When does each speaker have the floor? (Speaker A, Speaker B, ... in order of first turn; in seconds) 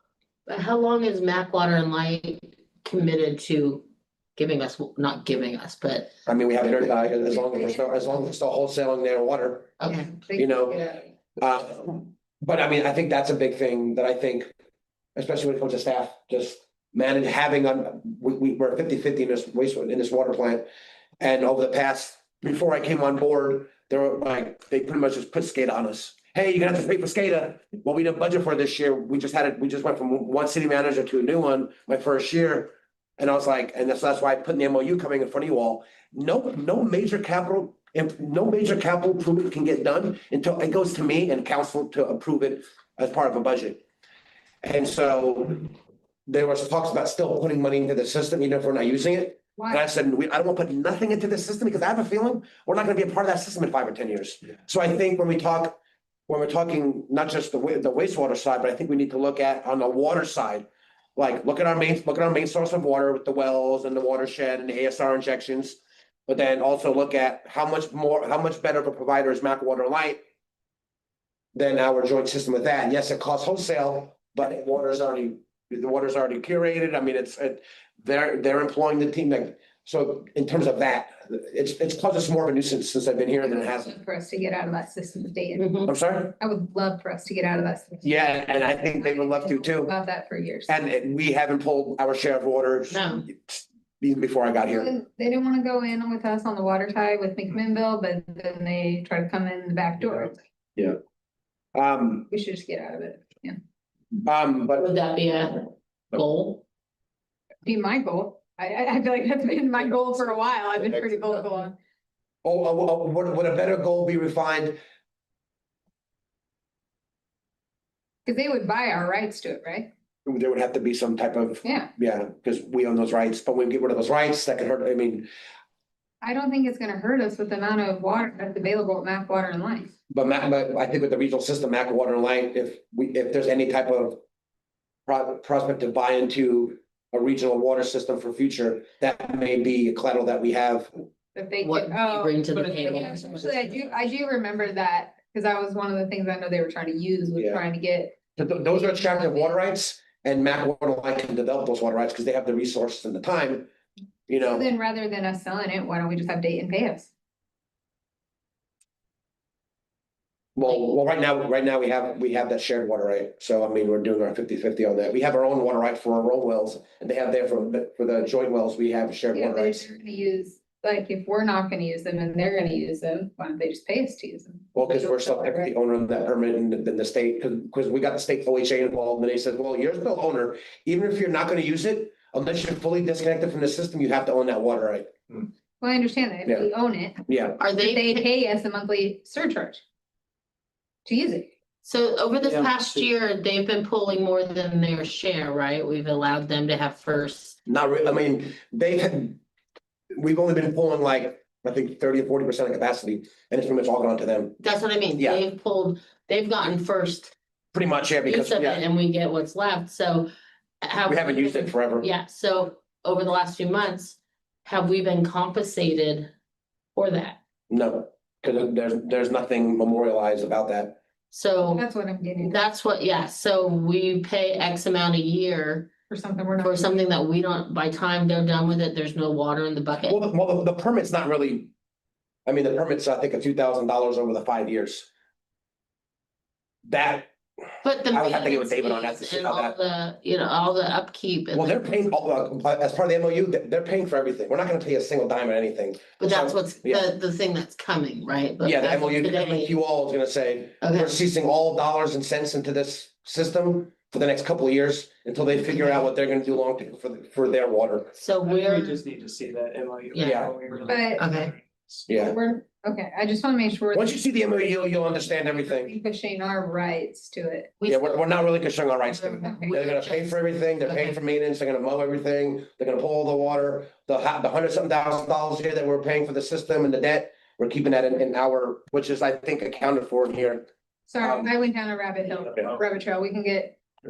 Speaker A: 0.5-3.9, 4.4-6.1, 9.8-10.1, 85.6-85.9, 92.9-93.3, 104.8-106.6, 141.6-143.8, 187.6-188.3, 191.8-197.6, 204.6-207.3, 208.3-210.3, 210.8-216.3, 217.0-217.4, 221.3-221.9, 222.4-225.9, 226.6-230.2, 237.8-241.8, 246.2-249.7, 250.8-251.2, 258.1-259.0, 260.1-260.5, 261.2-261.5, 267.8-268.3, 269.1-271.2
Speaker B: 6.3-9.8, 10.3-14.5, 15.2-20.7, 21.2-43.8, 44.6-45.7, 46.3-70.2, 71.5-83.9, 85.9-86.4, 88.0-89.9, 90.7-94.9, 101.8-102.3, 104.2-104.9, 112.4-114.8, 120.3-125.3, 130.1-134.2, 135.1-140.9, 147.4-147.6, 148.4-153.7, 154.3-154.7, 160.6-169.8, 174.8-185.2, 187.3-187.6, 197.7-199.4, 200.2-204.6, 205.2-205.4, 207.7-208.8, 211.1-212.1, 217.7-221.0, 230.1-231.7, 232.5-235.1, 236.8-237.3, 238.1-239.8, 241.5-247.1, 248.6-258.1, 260.2-260.6, 262.1-262.4, 263.9-265.9, 267.9-280.7, 281.2-281.5
Speaker C: 7.3-8.2, 9.9-11.1, 49.6-49.8, 83.4-88.1, 89.0-90.7, 94.6-100.4, 102.3-103.6, 107.6-111.8, 118.3-119.9, 121.6-121.9, 126.2-129.9, 141.3-148.2, 148.7-149.6, 154.4-157.1, 169.3-175.7, 185.8-189.8, 191.1-191.5, 221.7-222.6, 226.1-227.0, 260.9-261.3, 262.1-264.2, 264.8-267.7, 269.4-269.8, 281.1-283.8
Speaker D: 192.4-193.1, 258.4-262.1